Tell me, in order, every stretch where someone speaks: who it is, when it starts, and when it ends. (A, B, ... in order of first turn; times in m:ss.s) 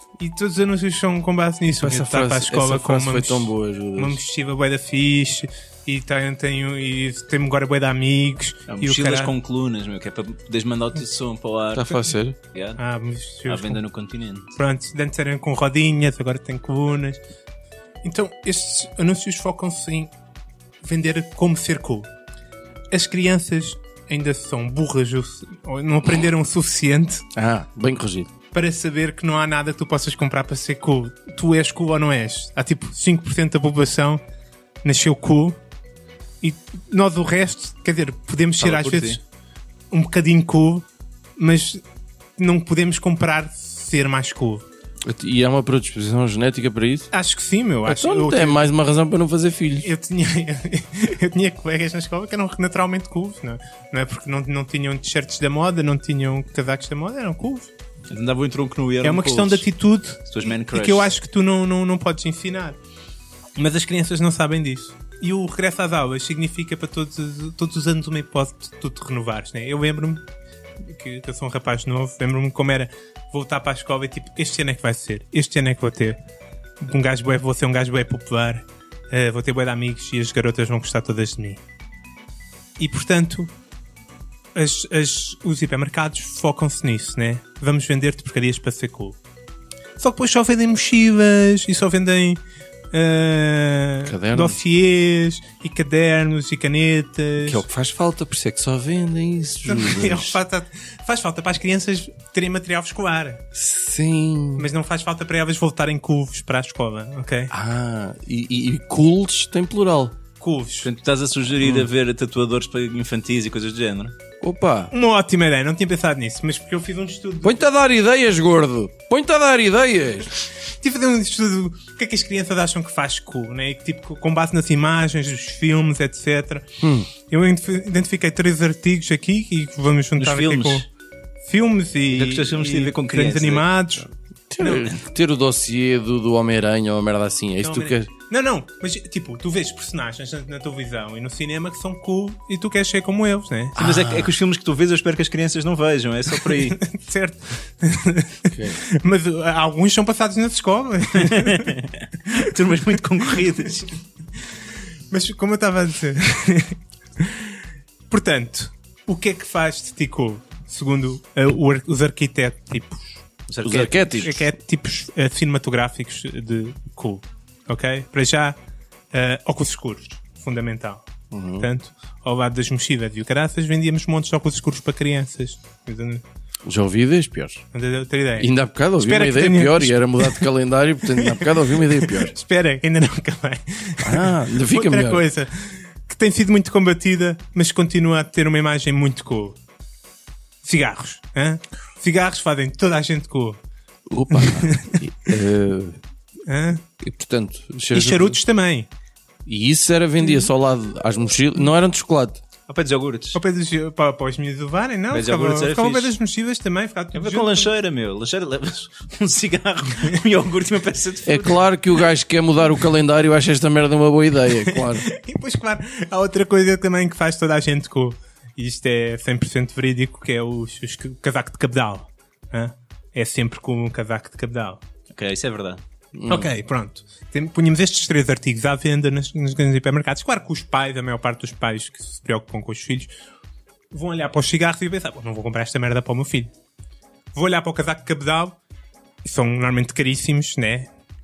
0:00.2-0:09.3 A
0:01.7-0:04.2 B
0:08.7-0:11.9 C
0:11.7-0:12.4 B
0:12.5-0:12.8 C
0:12.8-0:13.8 A
0:13.4-0:14.5 C
0:14.5-0:17.2 A
0:18.0-0:20.1 A
0:20.8-0:22.1 A
0:22.9-0:27.2 A
0:27.4-0:28.3 B
0:28.5-0:34.2 A
0:34.8-0:35.6 A
0:36.4-0:39.2 A
0:38.6-0:39.2 C
0:39.9-0:41.8 A
0:42.4-0:44.6 A
0:45.0-0:47.1 B
0:47.1-0:48.6 A
0:47.8-0:49.9 B
0:49.8-0:57.7 A
0:58.1-0:59.6 C
0:59.0-1:02.8 A
1:00.3-1:01.1 C
1:03.6-1:10.2 A
1:10.8-1:16.2 A
1:16.8-1:21.6 A
1:22.8-1:23.5 A
1:24.5-1:29.2 A
1:30.0-1:32.4 A
1:32.9-1:37.6 A
1:34.0-1:34.6 B
1:37.4-1:40.4 B
1:39.6-1:43.4 A
1:43.5-1:44.7 B
1:44.6-1:47.5 A
1:47.5-1:50.2 B
1:50.4-1:50.9 A
1:50.8-1:54.1 C
1:54.4-1:54.9 B
1:54.9-1:57.7 A
1:57.4-2:00.4 B
2:00.8-2:06.6 A
2:06.8-2:07.1 B
2:07.2-2:10.8 A
2:10.2-2:10.9 C
2:11.4-2:14.1 A
2:12.1-2:13.7 C
2:14.5-2:18.1 B
2:14.6-2:15.0 C
2:17.6-2:23.8 A
2:23.7-2:24.3 B
2:23.8-2:26.8 C
2:26.4-2:31.7 A
2:28.5-2:28.8 B
2:31.2-2:33.9 C
2:35.1-2:37.5 A
2:38.1-2:43.1 A
2:43.5-2:44.2 C
2:43.6-2:44.5 B
2:44.1-2:48.6 A
2:49.1-2:51.0 A
2:51.3-2:51.7 B
2:51.6-2:56.2 A
2:56.6-2:57.6 B
2:57.7-3:00.5 A
2:58.4-3:02.3 B
3:01.2-3:09.6 A
3:04.0-3:05.2 B
3:10.6-3:13.6 A
3:14.1-3:16.0 B
3:14.3-3:15.0 A
3:16.5-3:16.8 A
3:17.0-3:18.4 B
3:17.9-3:18.9 A
3:19.4-3:22.4 B
3:20.2-3:20.5 A
3:22.7-3:23.4 C
3:23.3-3:27.7 A
3:25.1-3:26.2 C
3:27.1-3:31.7 C
3:31.2-3:35.0 B
3:34.5-3:44.8 A
3:45.1-3:45.8 C
3:46.1-3:46.5 B
3:46.3-3:53.1 A
3:53.9-3:56.5 A
3:57.3-3:58.6 A
3:59.2-4:00.9 A